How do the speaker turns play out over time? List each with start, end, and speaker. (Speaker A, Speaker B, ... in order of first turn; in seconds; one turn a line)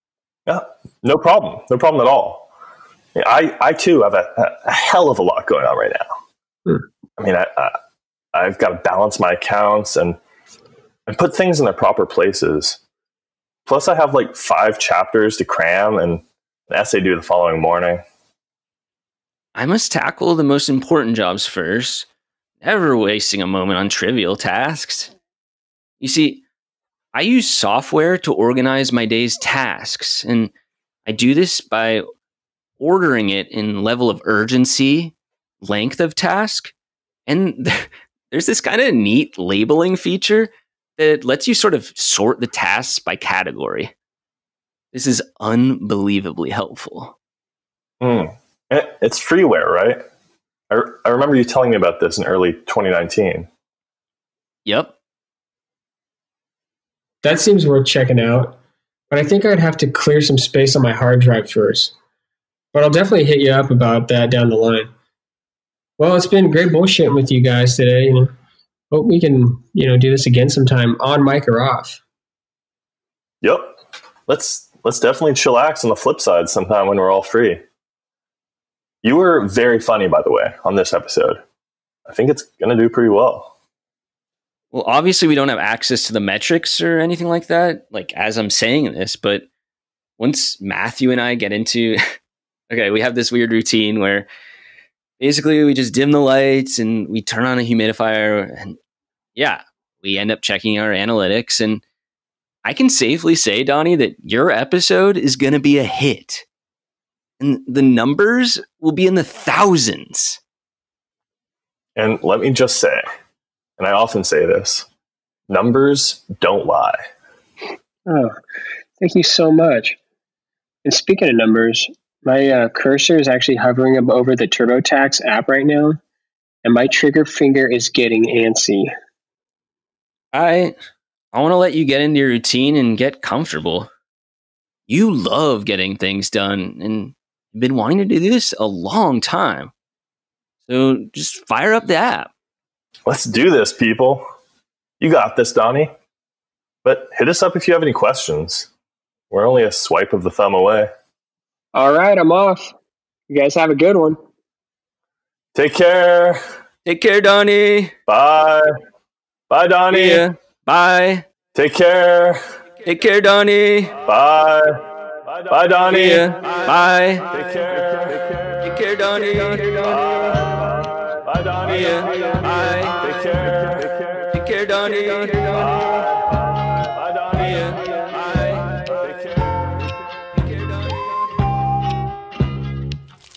Speaker A: 0.5-2.5
Speaker A: 3.1-6.1
Speaker A: 7.2-7.7
Speaker A: 8.3-10.2
Speaker A: 11.1-12.8
Speaker A: 13.7-18.0
Speaker B: 19.6-22.1
Speaker B: 22.6-25.1
Speaker B: 26.0-26.4
Speaker B: 27.1-30.5
Speaker B: 31.1-32.0
Speaker B: 32.8-36.7
Speaker B: 37.3-43.9
Speaker B: 44.9-47.1
Speaker A: 48.0-50.0
Speaker A: 50.7-53.5
Speaker B: 54.6-55.0
Speaker C: 57.2-58.6
Speaker C: 59.1-61.9
Speaker C: 62.7-64.9
Speaker C: 66.0-68.3
Speaker C: 68.9-72.0
Speaker A: 73.4-73.8
Speaker A: 74.3-77.6
Speaker A: 79.0-81.4
Speaker A: 82.1-83.5
Speaker B: 84.7-89.5
Speaker B: 90.2-92.0
Speaker B: 92.7-94.3
Speaker B: 95.2-98.8
Speaker B: 99.3-101.8
Speaker B: 102.6-106.5
Speaker B: 107.4-110.4
Speaker A: 112.0-113.0
Speaker A: 113.8-114.9
Speaker A: 115.5-117.0
Speaker C: 118.1-118.3
Speaker C: 119.0-120.0
Speaker C: 120.8-126.0
Speaker C: 126.6-128.9
Speaker B: 130.3-130.7
Speaker B: 131.3-133.9
Speaker B: 134.9-139.7
Speaker B: 140.7-142.3
Speaker A: 143.1-144.2
Speaker A: 145.0-145.9
Speaker A: 146.8-148.7
Speaker A: 149.3-150.9
Speaker C: 151.7-152.7
Speaker C: 153.3-154.2
Speaker A: 155.5-156.4
Speaker B: 156.8-157.9
Speaker A: 158.1-158.7
Speaker A: 159.5-160.2
Speaker B: 159.9-161.2
Speaker A: 161.5-162.4
Speaker B: 162.8-163.9
Speaker A: 164.0-166.3
Speaker B: 165.9-167.3
Speaker A: 167.3-168.6
Speaker B: 168.6-170.2
Speaker A: 169.9-174.3
Speaker B: 171.6-173.1
Speaker B: 174.2-176.0
Speaker A: 175.5-177.8
Speaker B: 177.3-178.8
Speaker A: 178.8-179.7
Speaker B: 180.4-181.1